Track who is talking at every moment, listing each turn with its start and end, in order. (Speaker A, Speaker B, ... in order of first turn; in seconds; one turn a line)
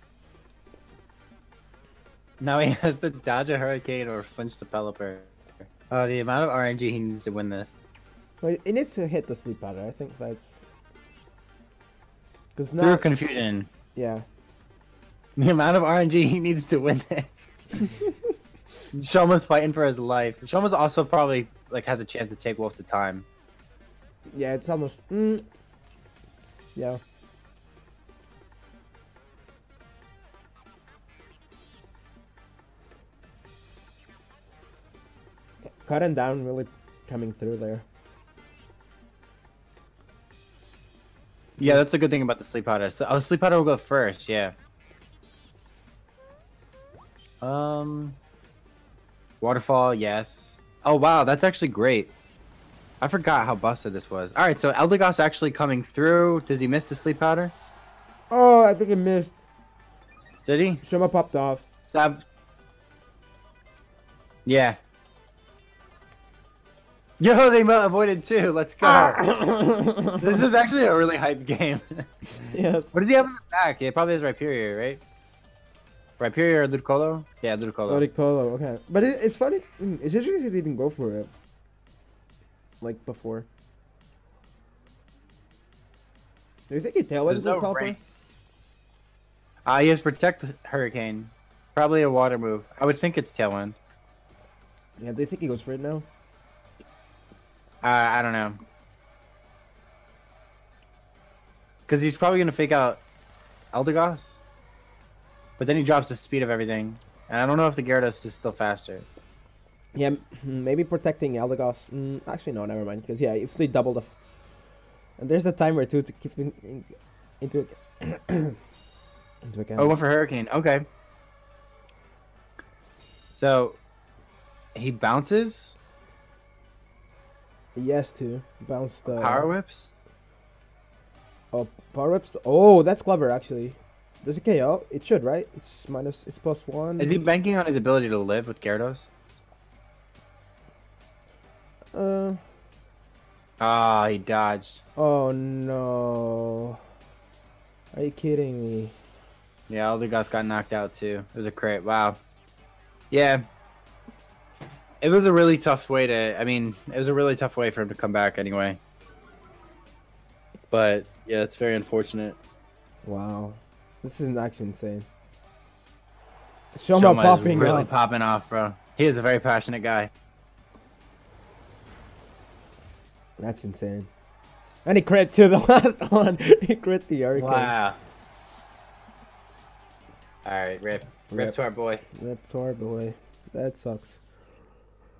Speaker A: 2.4-7.8
Speaker B: 8.4-10.5
Speaker B: 12.5-13.0
Speaker A: 12.8-13.7
Speaker B: 13.9-14.2
Speaker A: 15.3-17.5
Speaker A: 18.9-23.2
Speaker B: 24.3-25.4
Speaker B: 35.8-37.8
Speaker A: 41.6-44.5
Speaker A: 47.4-48.2
Speaker A: 49.4-52.1
Speaker A: 53.0-57.5
Speaker B: 58.3-59.4
Speaker A: 60.5-60.8
Speaker B: 60.8-61.6
Speaker A: 61.9-62.2
Speaker A: 64.4-64.8
Speaker A: 67.2-69.3
Speaker B: 68.8-70.3
Speaker A: 70.2-72.3
Speaker B: 72.5-73.0
Speaker A: 72.9-75.0
Speaker A: 76.2-78.1
Speaker B: 77.9-81.3
Speaker B: 82.8-83.5
Speaker B: 86.7-88.0
Speaker A: 87.3-88.0
Speaker A: 89.7-93.8
Speaker B: 95.0-96.0
Speaker A: 97.8-98.6
Speaker A: 101.9-103.0
Speaker A: 103.7-104.4
Speaker A: 105.6-109.0
Speaker B: 109.9-114.1
Speaker B: 115.2-118.6
Speaker B: 119.5-120.0
Speaker A: 119.8-120.8
Speaker A: 123.3-123.8
Speaker A: 124.7-125.7
Speaker B: 127.8-129.5
Speaker A: 129.1-129.9
Speaker B: 131.5-137.1
Speaker A: 137.0-139.1
Speaker B: 141.9-142.4
Speaker A: 143.6-144.8
Speaker B: 145.0-146.8
Speaker B: 147.9-148.9
Speaker A: 149.7-152.2
Speaker A: 153.1-153.4
Speaker A: 155.0-158.8
Speaker A: 160.7-162.4
Speaker B: 163.0-165.1
Speaker B: 166.7-167.9
Speaker A: 166.9-170.1
Speaker B: 173.4-174.1
Speaker B: 174.8-177.7
Speaker A: 177.3-178.0
Speaker A: 180.4-182.0
Speaker B: 181.3-181.6
Speaker B: 182.1-184.2